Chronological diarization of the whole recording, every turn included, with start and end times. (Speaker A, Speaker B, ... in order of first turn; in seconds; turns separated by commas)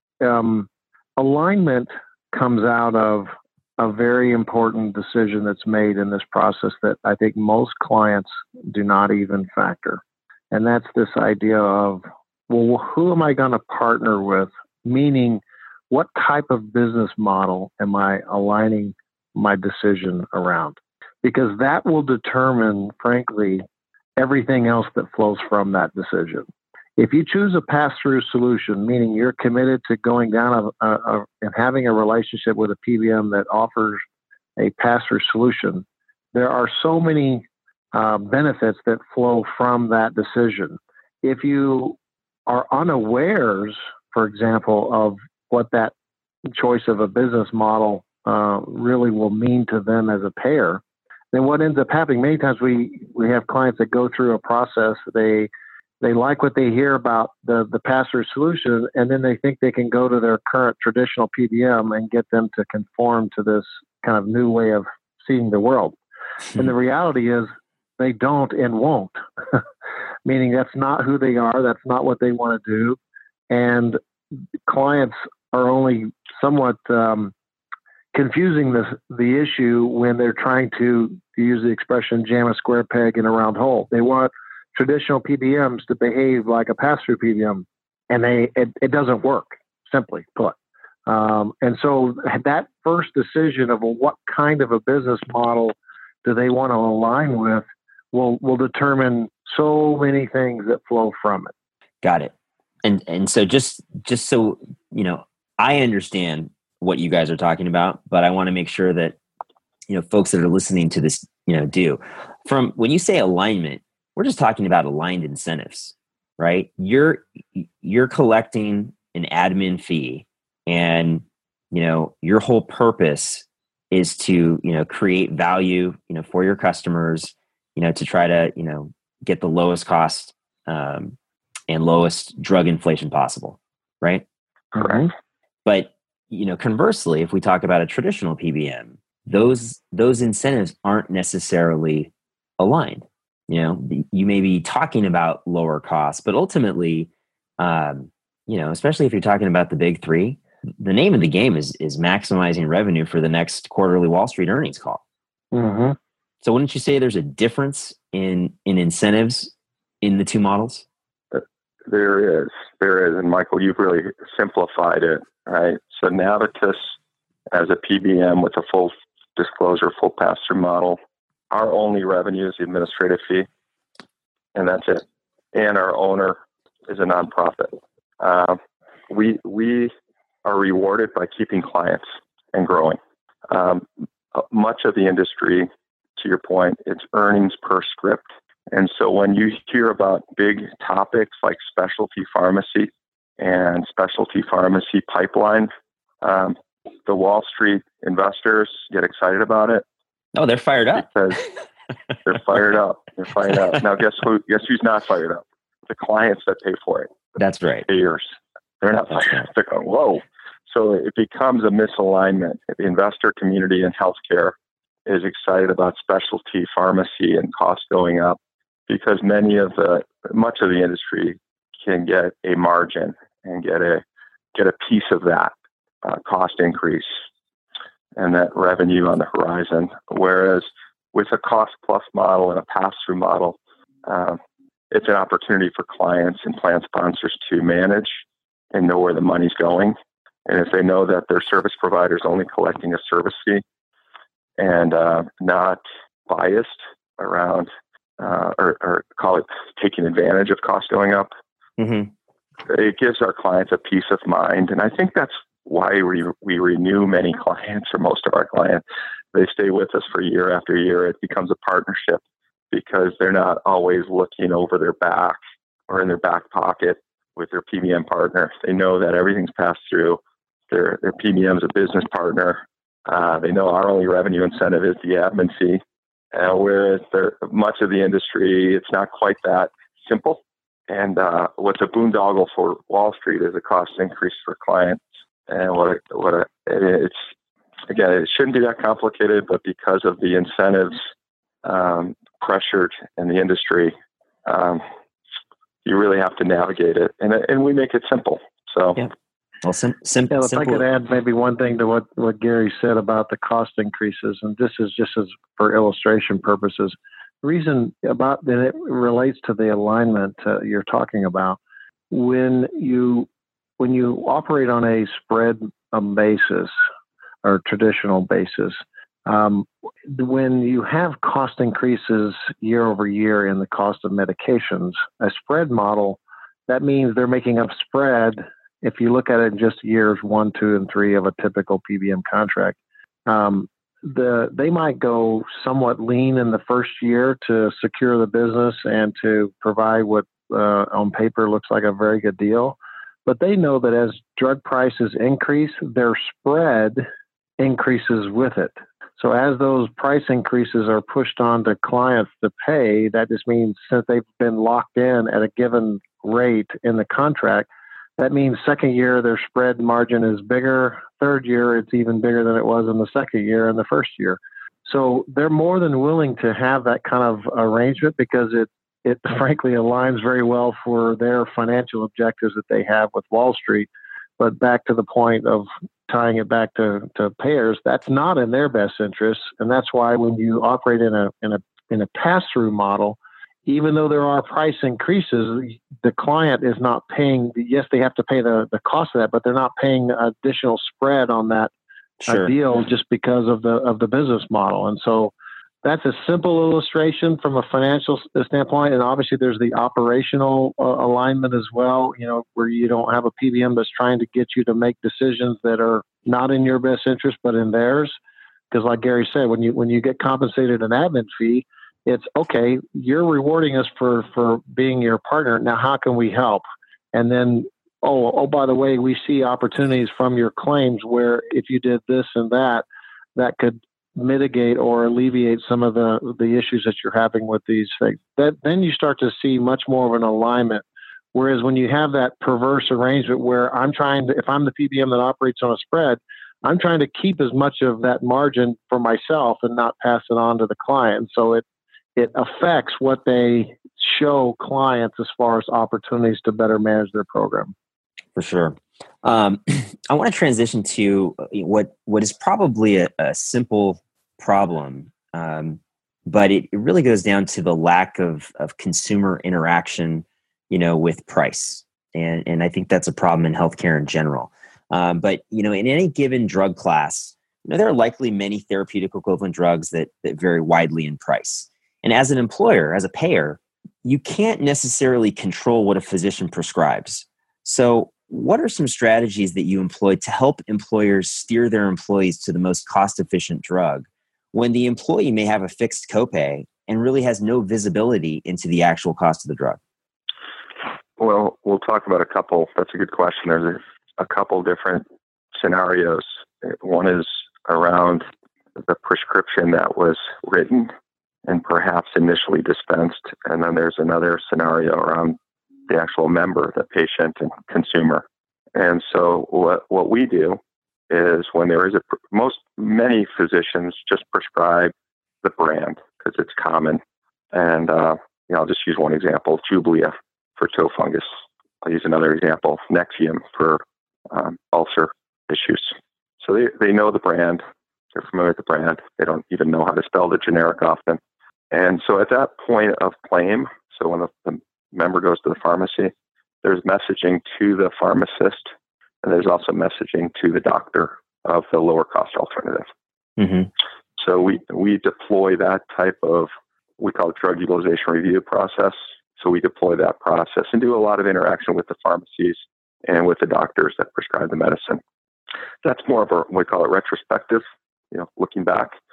Speaker A: 0.2-23.6, Speaker A: 24.2-26.4, Speaker A: 27.0-34.0, Speaker A: 34.6-45.9, Speaker A: 46.5-50.8, Speaker A: 51.3-55.5, Speaker A: 56.0-65.9, Speaker A: 66.5-69.6, Speaker A: 70.2-73.0, Speaker A: 73.5-74.0, Speaker A: 74.7-77.3, Speaker A: 78.1-90.5, Speaker A: 91.1-101.5, Speaker B: 102.0-109.2, Speaker B: 109.9-131.2, Speaker B: 131.7-134.2, Speaker A: 134.7-135.1, Speaker B: 135.6-155.0, Speaker A: 155.5-156.0, Speaker B: 156.4-160.8, Speaker C: 161.3-166.9, Speaker C: 167.5-171.0, Speaker C: 171.5-173.5, Speaker C: 174.5-175.0, Speaker C: 175.5-179.9, Speaker C: 180.4-195.7, Speaker C: 196.2-199.8, Speaker B: 200.3-201.1, Speaker C: 201.0-201.4, Speaker C: 202.2-207.2, Speaker B: 207.4-207.9, Speaker C: 207.9-214.5, Speaker C: 215.1-224.0, Speaker C: 224.5-227.1, Speaker C: 228.2-234.4, Speaker C: 234.9-238.2, Speaker C: 238.7-239.9, Speaker C: 240.4-243.6, Speaker C: 244.6-251.3, Speaker B: 251.8-252.1, Speaker C: 252.7-258.8, Speaker C: 259.3-265.4, Speaker C: 265.9-275.8, Speaker C: 276.3-287.2, Speaker C: 287.9-291.1, Speaker C: 291.6-293.9, Speaker C: 294.4-294.8, Speaker C: 295.8-299.0, Speaker B: 299.6-300.8, Speaker A: 300.3-311.6, Speaker A: 312.1-313.3, Speaker A: 313.8-316.7, Speaker A: 317.4-347.0, Speaker A: 347.6-391.7, Speaker B: 392.2-392.5, Speaker A: 392.3-395.3, Speaker A: 395.8-408.1, Speaker A: 408.7-422.8, Speaker A: 423.4-430.8, Speaker A: 431.3-441.6, Speaker A: 442.1-447.7, Speaker B: 448.4-489.8, Speaker C: 491.2-498.2, Speaker C: 498.8-500.9, Speaker C: 501.4-505.4, Speaker C: 505.9-517.0, Speaker C: 517.5-521.3, Speaker C: 521.8-527.6, Speaker C: 528.1-531.2, Speaker C: 531.7-536.1, Speaker C: 536.6-538.7, Speaker C: 539.2-542.9, Speaker B: 543.4-543.7, Speaker C: 544.2-555.0, Speaker C: 555.8-558.9